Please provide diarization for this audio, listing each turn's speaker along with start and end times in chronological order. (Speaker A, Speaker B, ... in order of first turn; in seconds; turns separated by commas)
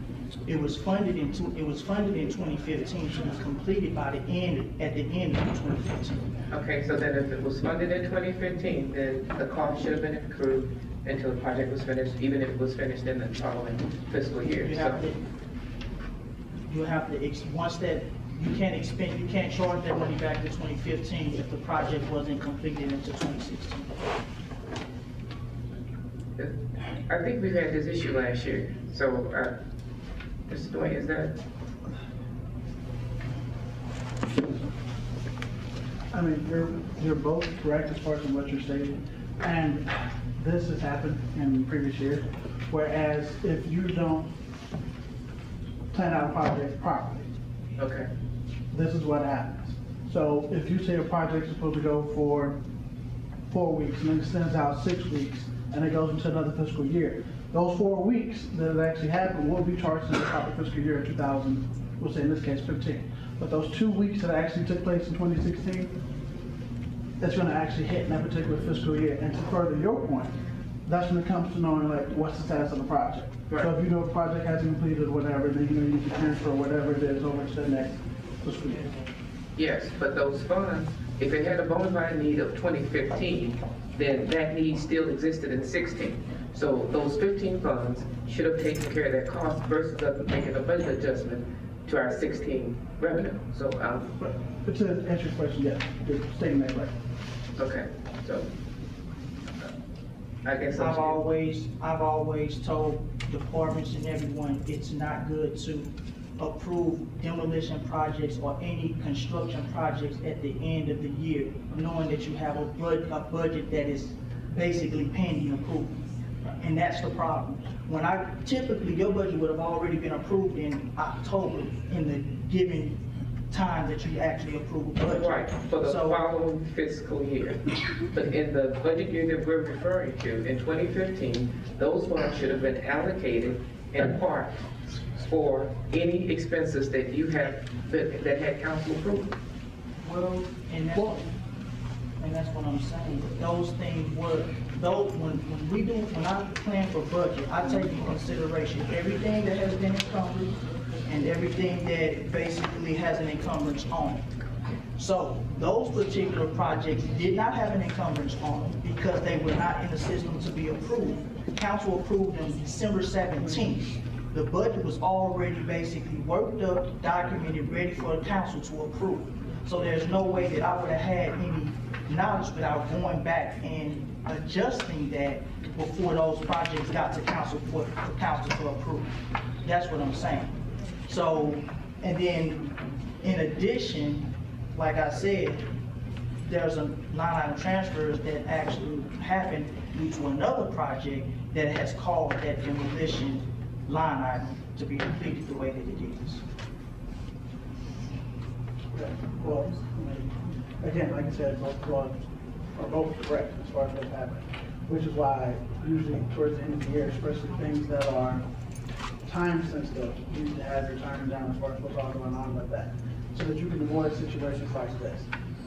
Speaker A: 0.5-6.3, Speaker B: 6.5-15.0, Speaker A: 14.6-15.2, Speaker A: 16.7-23.9, Speaker B: 26.4-29.6, Speaker B: 30.5-31.4, Speaker C: 36.1-44.3, Speaker C: 45.9-47.2, Speaker B: 47.8-48.1, Speaker C: 48.7-52.6, Speaker C: 53.5-65.9, Speaker C: 67.2-70.3, Speaker C: 70.8-78.8, Speaker B: 79.5-94.1, Speaker C: 94.2-96.9, Speaker B: 97.6-98.5, Speaker B: 100.4-101.2, Speaker A: 100.8-116.0, Speaker A: 116.6-126.2, Speaker B: 125.1-139.3, Speaker A: 140.0-141.3, Speaker A: 142.2-154.2, Speaker A: 155.0-179.1, Speaker A: 179.6-180.5, Speaker A: 181.1-185.7, Speaker A: 186.4-196.4, Speaker C: 198.9-202.2, Speaker C: 202.7-208.4, Speaker C: 209.2-215.3